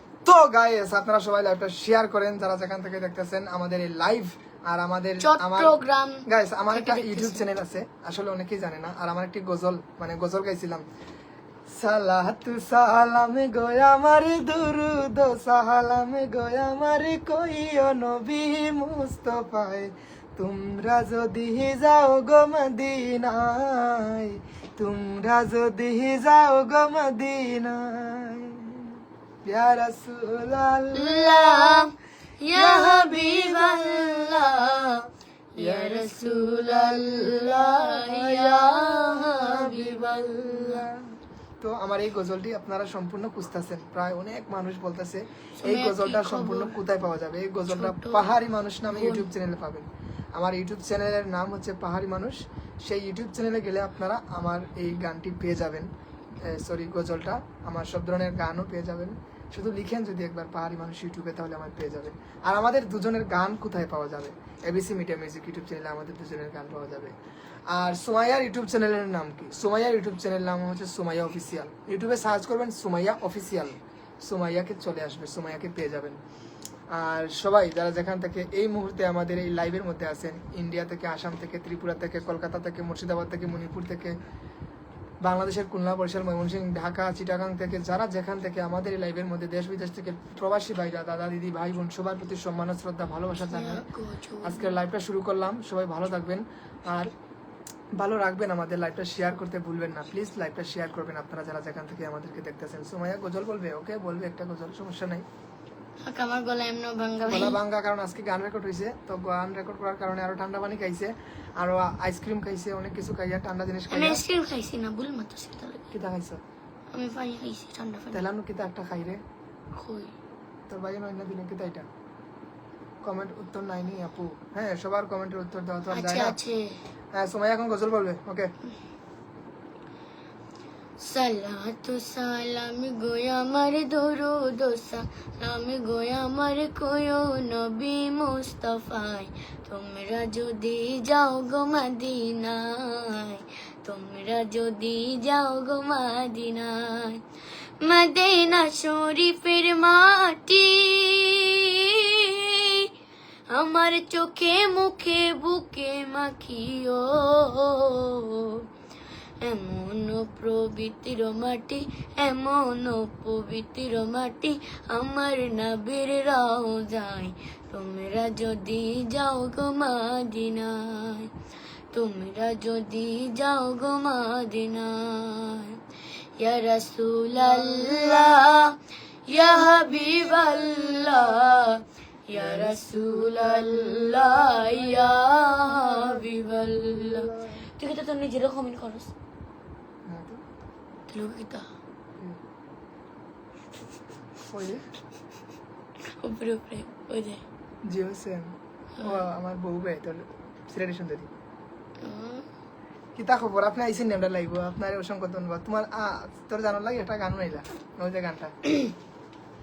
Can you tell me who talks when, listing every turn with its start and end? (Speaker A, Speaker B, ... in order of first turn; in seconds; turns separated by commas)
Speaker A: 0.2-10.8, Speaker B: 5.2-7.5, Speaker A: 11.7-31.9, Speaker B: 30.9-40.9, Speaker A: 32.5-34.7, Speaker A: 35.6-41.0, Speaker A: 41.6-55.9, Speaker B: 45.6-46.8, Speaker B: 47.7-48.3, Speaker B: 48.9-49.3, Speaker A: 56.4-67.2, Speaker A: 67.7-76.2, Speaker A: 76.9-84.1, Speaker A: 85.2-93.9, Speaker B: 93.5-94.8, Speaker A: 94.4-97.1, Speaker A: 98.0-105.2, Speaker B: 106.0-107.6, Speaker A: 107.2-114.2, Speaker B: 113.9-115.9, Speaker A: 115.9-116.4, Speaker B: 116.9-118.3, Speaker A: 118.1-119.2, Speaker B: 119.7-120.2, Speaker A: 120.7-121.9, Speaker A: 123.0-126.4, Speaker B: 125.9-126.8, Speaker A: 127.1-128.5, Speaker B: 131.0-147.2, Speaker B: 147.8-152.9, Speaker B: 153.5-158.7, Speaker B: 159.4-171.3, Speaker B: 171.9-175.8, Speaker B: 176.4-189.1, Speaker A: 182.3-184.8, Speaker A: 185.8-186.2, Speaker A: 187.0-187.6, Speaker A: 190.1-190.4, Speaker B: 191.1-191.7, Speaker A: 194.5-194.9, Speaker B: 196.1-197.4, Speaker A: 197.9-201.3, Speaker B: 202.0-202.5, Speaker A: 203.2-208.5